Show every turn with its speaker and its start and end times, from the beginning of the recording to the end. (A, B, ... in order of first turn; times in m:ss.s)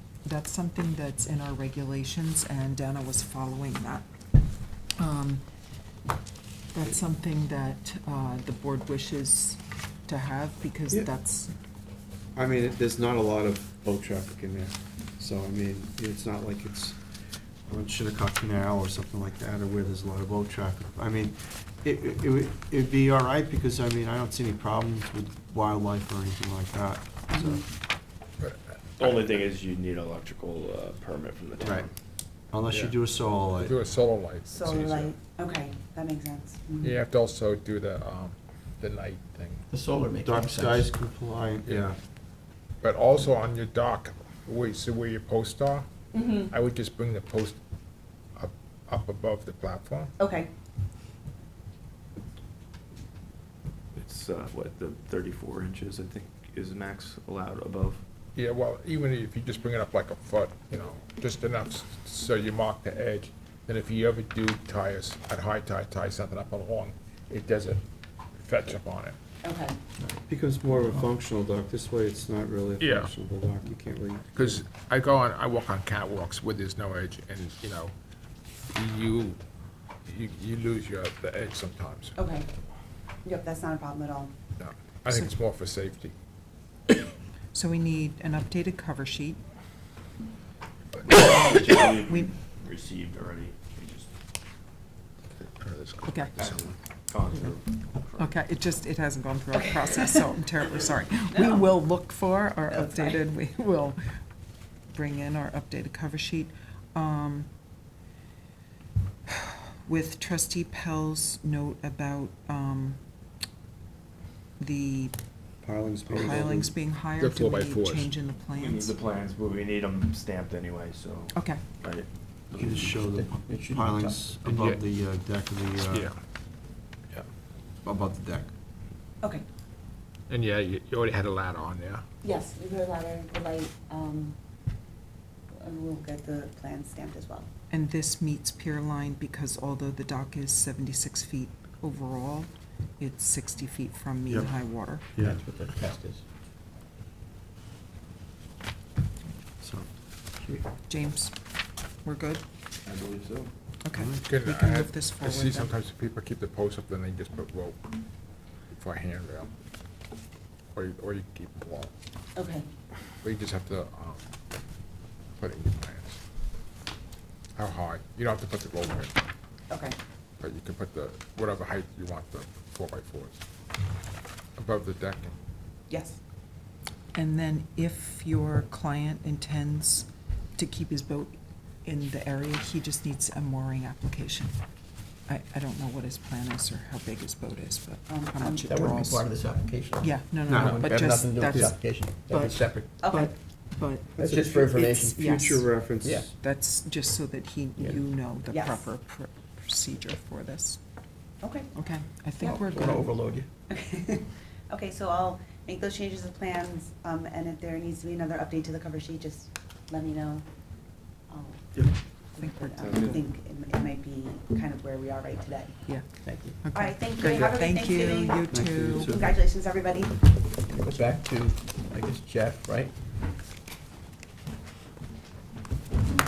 0:00.2-0:04.1 A
0:05.0-0:05.4 A
0:06.7-0:11.5 A
0:12.3-0:17.0 B
0:17.6-0:27.6 B
0:27.3-0:27.6 C
0:28.4-0:29.1 D
0:29.0-0:31.9 E
0:31.6-0:31.9 B
0:32.5-0:33.8 B
0:32.7-0:32.9 E
0:33.5-0:35.1 D
0:34.5-0:37.0 C
0:36.8-0:39.6 D
0:39.7-0:40.9 F
0:40.2-0:42.0 B
0:41.6-0:41.9 D
0:42.8-0:45.9 D
0:46.1-0:46.5 C
0:46.4-0:47.6 D
0:48.4-0:50.1 D
0:50.2-0:50.5 C
0:53.9-0:58.0 E
0:58.4-1:07.8 D
1:08.4-1:09.2 D
1:09.4-1:09.7 C
1:10.3-1:14.6 B
1:12.8-1:13.2 D
1:14.3-1:17.9 D
1:18.7-1:19.4 D
1:20.0-1:22.1 D
1:22.2-1:22.5 C
1:23.2-1:24.3 C
1:24.6-1:26.1 D
1:27.5-1:29.4 A
1:31.1-1:34.1 E
1:31.2-1:31.4 A
1:35.4-1:36.7 D
1:36.1-1:36.3 A
1:36.3-1:38.3 E
1:38.2-1:44.1 A
1:41.3-1:41.6 C
1:42.7-1:43.2 C
1:44.9-1:47.5 A
1:49.3-1:53.0 A
1:54.6-1:55.1 A
1:55.6-1:56.7 B
1:56.1-1:58.9 A
1:57.2-1:58.1 D
1:58.6-2:02.8 E
2:01.3-2:01.6 A
2:02.6-2:04.4 F
2:02.6-2:06.1 B
2:04.5-2:04.8 D
2:05.9-2:06.2 D
2:07.8-2:08.5 B
2:10.3-2:12.0 D
2:12.2-2:14.4 C
2:15.6-2:17.5 C
2:17.7-2:25.1 A
2:24.3-2:25.4 B
2:25.2-2:26.2 F
2:29.6-2:29.9 B
2:30.9-2:31.4 A
2:32.0-2:32.4 A
2:32.8-2:33.5 E
2:33.8-2:35.7 A
2:33.9-2:34.2 B
2:34.2-2:37.8 D
2:38.7-2:39.5 D
2:40.7-2:41.9 D
2:42.4-2:42.7 C
2:43.2-2:44.2 D
2:45.4-2:46.2 D
2:47.6-2:49.1 D
2:49.7-2:50.0 C
2:50.4-2:53.4 D
2:54.6-2:55.4 D
2:55.9-2:56.2 C
2:57.1-3:04.5 A
3:05.3-3:09.3 A
3:08.1-3:08.7 C
3:08.6-3:12.9 F
3:10.0-3:15.7 A
3:10.5-3:10.8 B
3:13.0-3:13.3 C
3:14.2-3:15.2 F
3:15.2-3:16.3 B
3:16.0-3:16.3 F
3:16.4-3:20.8 A
3:18.5-3:18.9 C
3:21.4-3:21.7 C
3:21.7-3:23.1 A
3:22.4-3:23.5 F
3:23.7-3:30.4 C
3:31.3-3:35.8 C
3:32.4-3:33.2 A
3:35.8-3:39.1 A
3:36.2-3:36.6 F
3:36.7-3:40.2 C
3:37.2-3:37.6 B
3:38.5-3:39.4 B
3:40.7-3:42.9 F